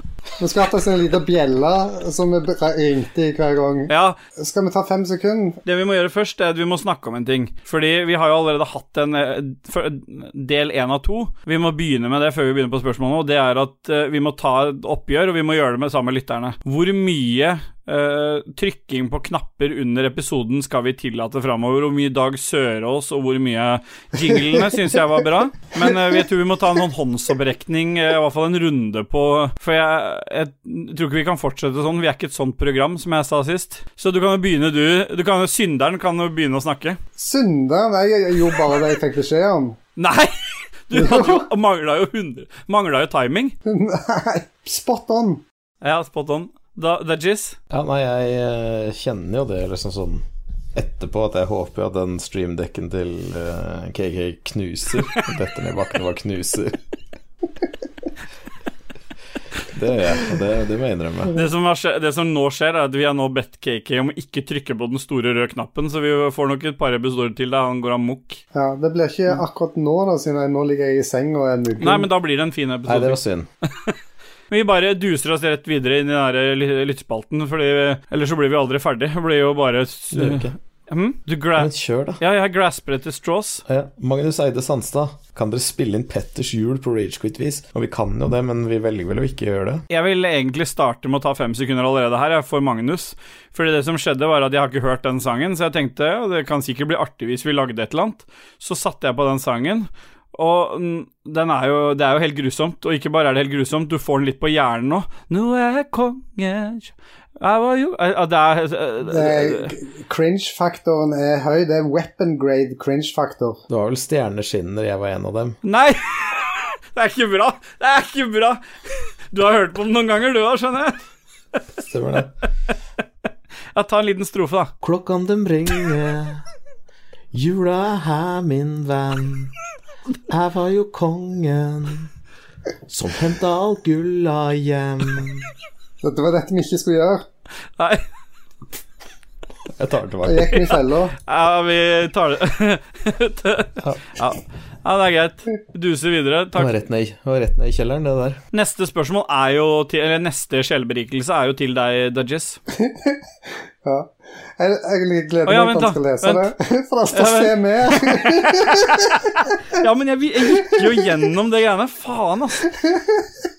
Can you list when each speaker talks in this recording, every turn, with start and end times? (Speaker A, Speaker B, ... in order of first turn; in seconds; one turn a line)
Speaker A: 0.4-5.6
Speaker B: 3.9-4.2
Speaker B: 5.7-37.0
Speaker A: 37.2-39.8
Speaker B: 40.0-43.5
Speaker A: 40.9-41.5
Speaker A: 43.7-45.4
Speaker B: 45.8-47.6
Speaker C: 47.7-50.2
Speaker C: 50.7-56.8
Speaker C: 59.7-61.3
Speaker B: 61.3-68.4
Speaker A: 68.5-72.1
Speaker B: 71.8-73.2
Speaker C: 72.9-73.5
Speaker B: 74.5-83.6
Speaker C: 80.1-80.5
Speaker C: 81.6-82.2
Speaker C: 83.7-89.8
Speaker B: 89.9-109.7
Speaker A: 109.0-113.6
Speaker C: 113.7-115.6
Speaker B: 115.6-121.0
Speaker C: 121.8-122.3
Speaker B: 123.7-124.7
Speaker C: 124.8-126.5
Speaker C: 127.3-129.5
Speaker C: 130.3-132.1
Speaker C: 132.9-135.5
Speaker A: 136.0-137.2
Speaker B: 137.8-138.0
Speaker C: 139.7-140.6
Speaker A: 140.2-141.2
Speaker B: 140.5-146.8
Speaker C: 146.6-148.4
Speaker B: 148.5-152.6
Speaker A: 152.8-153.2
Speaker A: 153.8-159.8
Speaker B: 155.5-156.5
Speaker B: 157.1-162.7
Speaker A: 160.4-161.2
Speaker A: 162.8-163.3